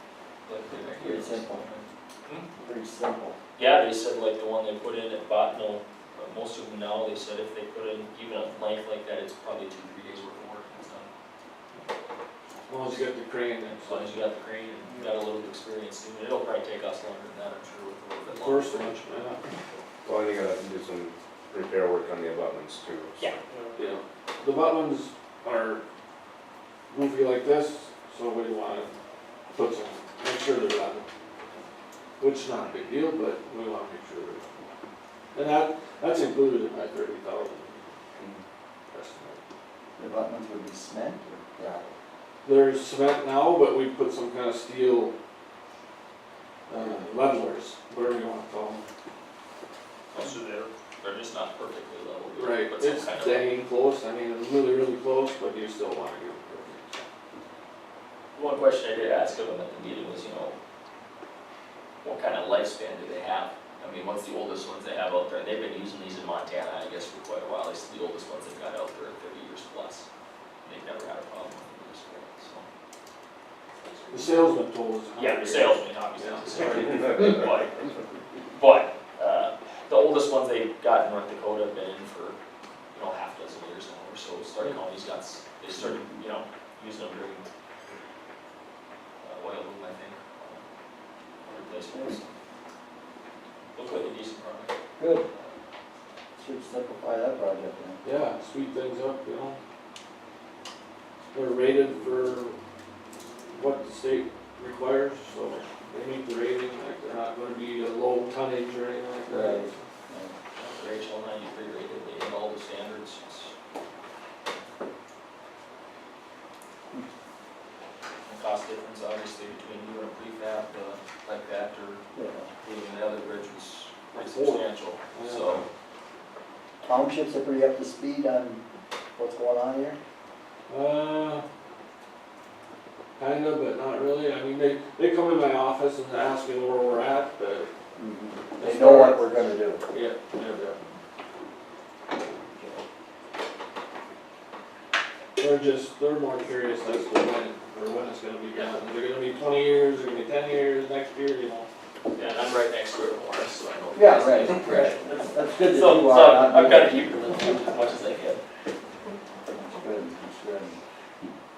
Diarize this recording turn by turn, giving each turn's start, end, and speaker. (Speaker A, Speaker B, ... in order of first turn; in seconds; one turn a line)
Speaker A: 0.4-2.5
Speaker B: 1.0-1.7
Speaker B: 2.6-3.4
Speaker A: 3.6-11.1
Speaker C: 12.7-14.1
Speaker A: 13.8-19.0
Speaker C: 18.3-19.4
Speaker D: 20.0-23.2
Speaker A: 23.2-23.7
Speaker C: 23.8-25.8
Speaker C: 26.9-28.9
Speaker C: 29.5-31.1
Speaker C: 32.2-34.5
Speaker C: 35.3-37.9
Speaker C: 38.9-39.4
Speaker B: 40.0-41.9
Speaker C: 42.4-45.1
Speaker C: 46.7-48.8
Speaker A: 50.1-53.5
Speaker C: 52.3-57.0
Speaker A: 58.3-60.6
Speaker A: 62.0-70.1
Speaker A: 70.6-72.7
Speaker C: 74.1-77.1
Speaker A: 75.2-77.9
Speaker A: 78.5-82.4
Speaker A: 82.9-87.5
Speaker A: 89.2-90.6
Speaker A: 91.4-92.2
Speaker B: 91.9-92.2
Speaker A: 93.8-94.7
Speaker B: 95.0-95.3
Speaker B: 96.4-98.0
Speaker C: 98.0-99.6
Speaker C: 101.3-102.6
Speaker C: 103.5-109.8
Speaker B: 109.3-110.3
Speaker A: 110.6-113.5
Speaker A: 118.2-122.0
Speaker B: 122.1-122.5
Speaker A: 122.6-125.7
Speaker C: 124.2-125.6
Speaker B: 126.8-128.6
Speaker B: 129.2-130.0
Speaker C: 130.7-131.4
Speaker C: 133.2-137.7
Speaker B: 137.9-139.8
Speaker C: 138.6-139.4
Speaker C: 139.9-140.8
Speaker C: 145.4-151.7
Speaker A: 152.1-158.4
Speaker B: 153.9-157.1
Speaker B: 159.6-160.8